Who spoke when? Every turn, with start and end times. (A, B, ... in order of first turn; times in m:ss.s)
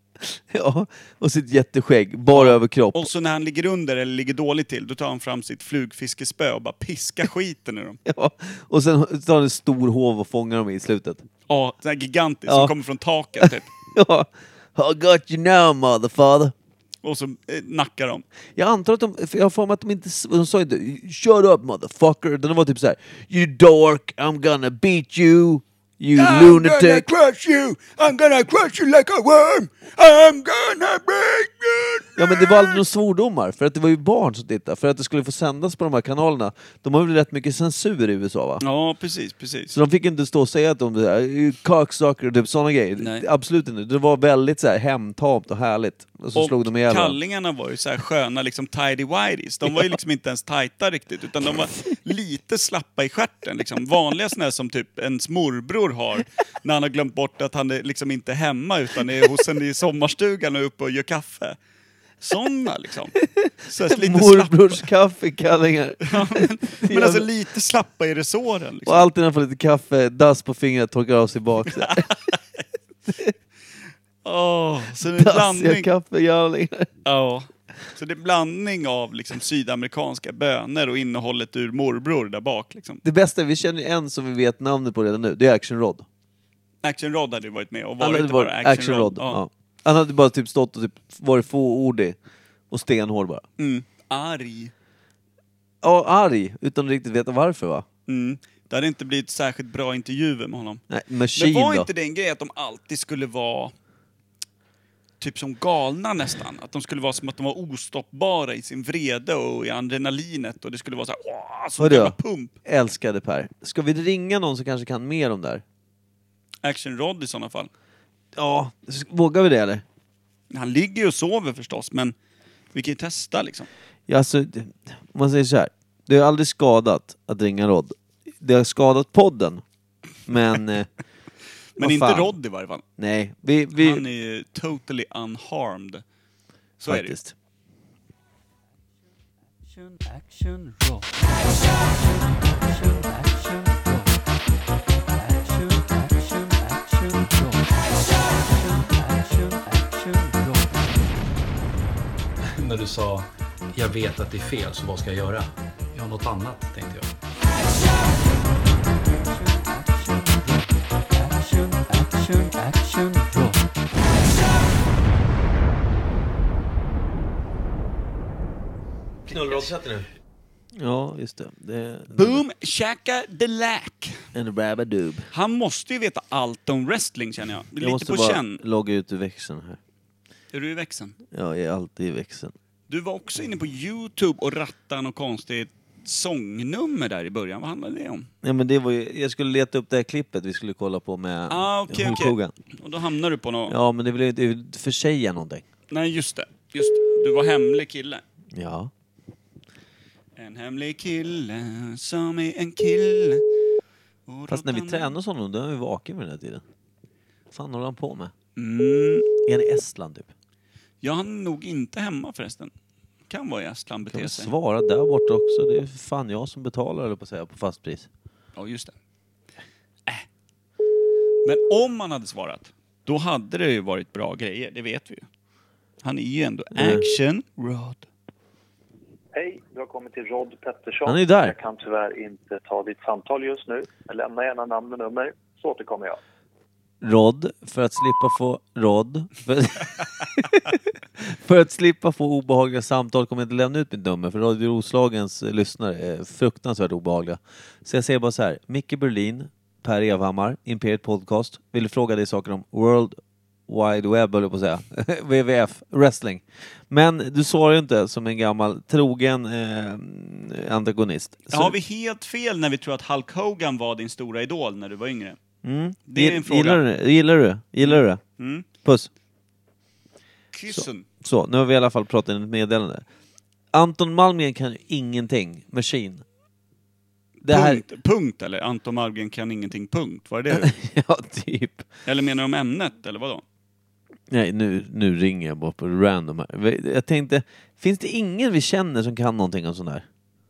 0:00.5-0:03.1 A
0:02.3-0:08.0 B
0:08.0-0:11.2 A
0:11.5-0:13.7 B
0:12.5-0:12.7 A
0:13.4-0:16.5 A
0:17.0-0:18.2 B
0:18.6-0:27.1 A
0:26.2-0:32.8 B
0:32.2-0:38.6 A
0:38.6-0:39.8 B
0:39.7-0:47.2 A
0:43.0-0:43.3 B
0:46.4-1:01.6 B
1:02.2-1:04.8 B
1:03.8-1:07.3 A
1:06.0-1:09.1 B
1:08.8-1:12.1 A
1:11.7-1:12.6 B
1:14.2-1:15.9 B
1:15.1-1:16.9 A
1:17.0-1:23.0 B
1:23.0-1:26.0 A
1:26.8-1:29.4 B
1:28.0-1:32.2 A
1:32.7-1:33.4 A
1:33.6-1:34.7 B
1:35.8-1:37.8 A
1:38.1-1:40.8 B
1:40.9-1:41.9 A
1:41.3-1:43.7 B
1:45.2-1:52.6 B
1:51.8-1:55.6 A
1:56.6-1:57.7 B
1:58.4-1:59.8 A
2:00.5-2:02.2 B
2:02.7-2:03.7 B
2:04.1-2:09.6 A
2:10.3-2:10.9 A
2:11.8-2:12.8 B
2:11.8-2:12.4 A
2:13.0-2:14.0 A
2:13.8-2:16.0 B
2:16.8-2:17.2 B
2:16.9-2:17.4 A
2:19.7-2:21.2 B
2:22.0-2:24.1 B
2:25.2-2:27.6 B
2:28.7-2:30.8 B
2:32.5-2:37.1 C
2:39.4-2:40.6 B
2:41.2-2:43.6 B
2:49.3-2:50.1 A
2:50.8-2:52.4 A
2:52.1-2:54.2 B
2:54.3-2:55.3 A
2:55.3-2:58.6 B
2:57.8-2:59.8 A
3:00.5-3:01.2 B
3:01.3-3:02.5 A
3:02.9-3:08.3 B
3:08.4-3:12.5 A
3:11.5-3:13.8 B
3:13.7-3:15.6 A
3:15.9-3:18.2 B
3:18.5-3:18.9 A
3:20.4-3:23.5 B
3:24.3-3:25.1 B
3:24.5-3:26.6 A
3:27.5-3:28.3 A
3:28.6-3:29.3 B
3:29.5-3:30.3 A
3:31.0-3:32.7 B
3:33.3-3:34.5 B
3:34.1-3:38.1 A
3:38.6-3:39.0 B
3:41.4-3:45.3 B
3:46.0-3:48.0 B
3:46.8-3:47.0 A
3:49.4-3:56.2 D
3:51.1-3:51.6 A
3:57.0-4:13.2 A
4:13.7-4:21.7 A
4:21.5-4:25.4 B
4:25.6-4:28.2 A
4:26.1-4:26.8 B
4:27.8-4:28.7 B
4:28.8-4:29.1 A
4:30.5-4:31.1 B
4:30.7-4:33.0 A
4:33.7-4:36.2 A
4:37.4-4:37.8 A
4:37.4-4:40.7 B
4:40.5-4:41.8 A
4:42.1-4:43.4 B
4:44.3-4:50.1 A